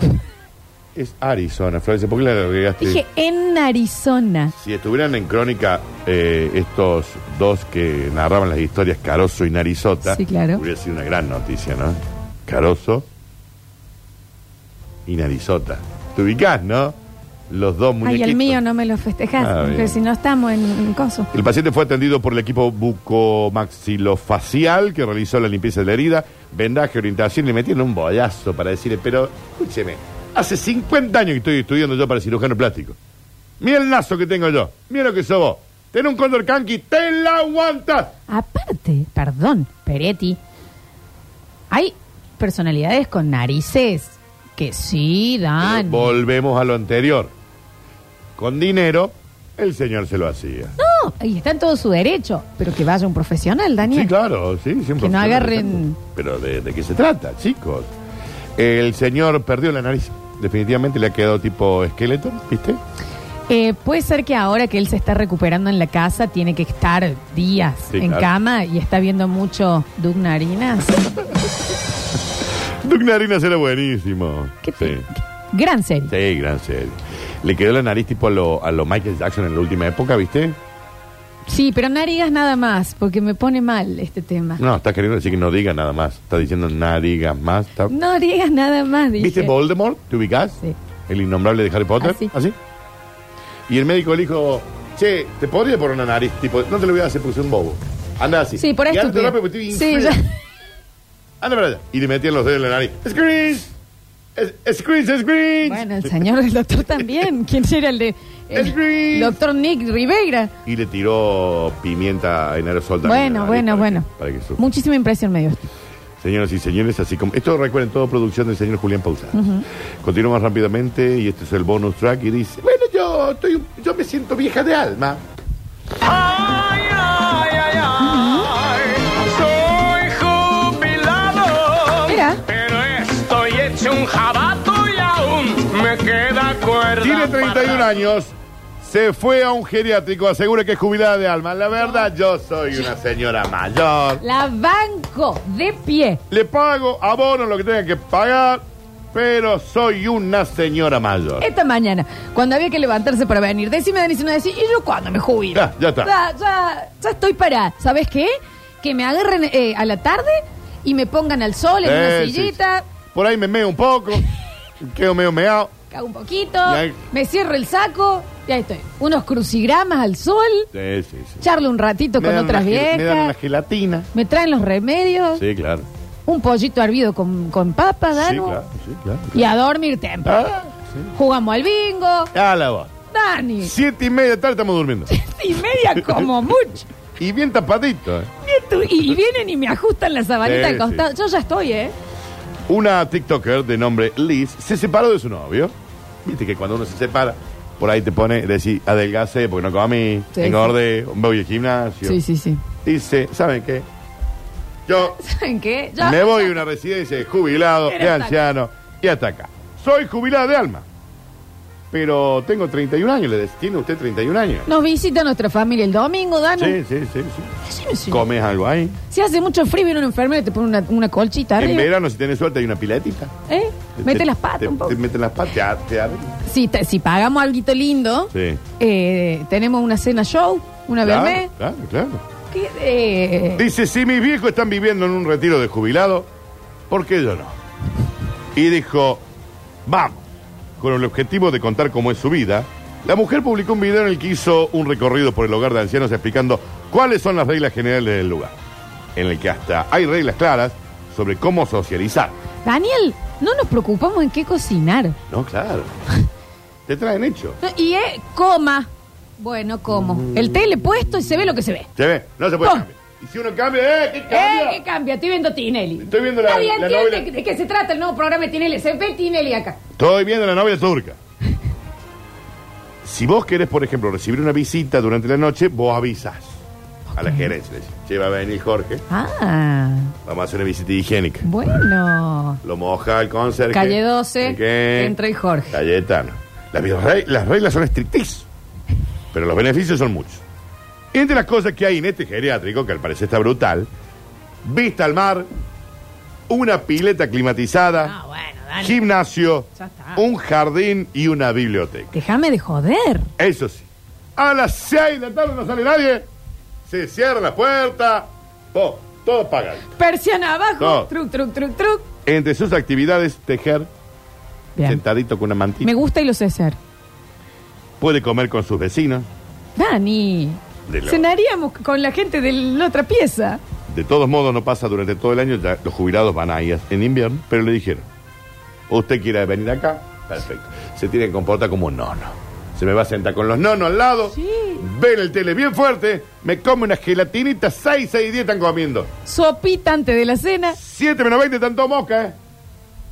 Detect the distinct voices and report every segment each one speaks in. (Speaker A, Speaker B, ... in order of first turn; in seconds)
Speaker A: 0.9-3.0, 4.5-13.1, 15.1-16.9, 17.5-18.6, 19.4-20.0, 21.3-33.0, 33.6-38.1, 45.6-47.3, 48.4-50.7, 53.8-57.9, 58.6-62.8, 67.9-68.3, 72.8-75.1, 76.1-80.6, 84.6-87.9, 89.2-92.6, 93.7-100.2, 101.4-103.7, 104.3-106.2, 108.5-109.4, 110.6-114.6, 116.2-119.4, 120.0-125.2, 137.0-144.2, 146.3-151.5, 155.5-156.1, 161.8-162.6, 163.1-164.3, 164.8-165.7, 166.7-167.0, 170.7-171.4, 172.2-174.1, 175.3-175.9, 178.1-179.5, 180.2-181.1, 182.3-182.9, 183.6-185.1, 186.0-186.3, 187.2-188.3, 190.4-191.1, 192.7-202.2, 202.8-203.9, 204.9-205.2, 206.0-210.8, 211.9-214.7, 216.6-217.5, 218.1-219.0, 221.6-223.3, 224.0-226.4, 228.3-228.6, 231.0-232.2, 233.6-236.3, 236.9-237.6, 238.5-239.2, 239.8-240.2, 240.8-248.5, 249.1-252.3, 255.3-255.9, 256.9-257.6, 260.2-260.5, 261.9-264.8, 266.0-267.3, 269.9-271.2, 273.0-276.6, 277.1-279.0, 280.2-281.5, 282.6-285.2, 285.7-288.5, 289.3-290.4, 291.1-293.9, 294.6-295.5, 296.5-298.1, 298.8-302.1, 303.4-306.3, 306.9-309.9, 310.8-311.1, 312.2-313.9, 314.8-315.9, 318.0-319.3, 320.9-321.2, 323.9-328.1, 328.9-339.1, 340.8-342.4
Speaker B: 2.8-4.5, 10.0-10.6, 18.0-21.3, 38.3-40.4, 41.7-46.1, 50.8-54.1, 55.0-56.0, 63.5-71.1, 74.6-76.1, 81.5-84.6, 87.9-89.5, 92.0-92.3, 98.6-100.3, 105.6-110.5, 113.0-115.7, 119.3-119.6, 128.0-128.5, 132.1-132.4, 144.2-146.2, 151.4-162.8, 165.9-170.7, 171.4-173.3, 174.1-175.4, 176.3-178.6, 179.3-180.4, 181.1-182.3, 183.1-183.7, 185.1-186.9, 188.4-191.9, 200.3-200.7, 202.0-202.6, 205.1-206.6, 207.9-208.3, 214.7-216.8, 217.6-218.2, 219.1-221.9, 223.5-225.0, 226.4-231.5, 232.5-233.7, 252.6-255.2, 257.6-261.9, 264.3-269.8, 277.1-277.5, 279.1-280.1, 281.4-282.6, 283.7-285.8, 298.0-299.0, 299.8-300.2, 302.1-303.3, 310.0-312.1, 314.8-315.0, 315.8-316.8, 319.8-323.6, 334.3-334.8, 339.2-340.8
Speaker C: 126.0-138.1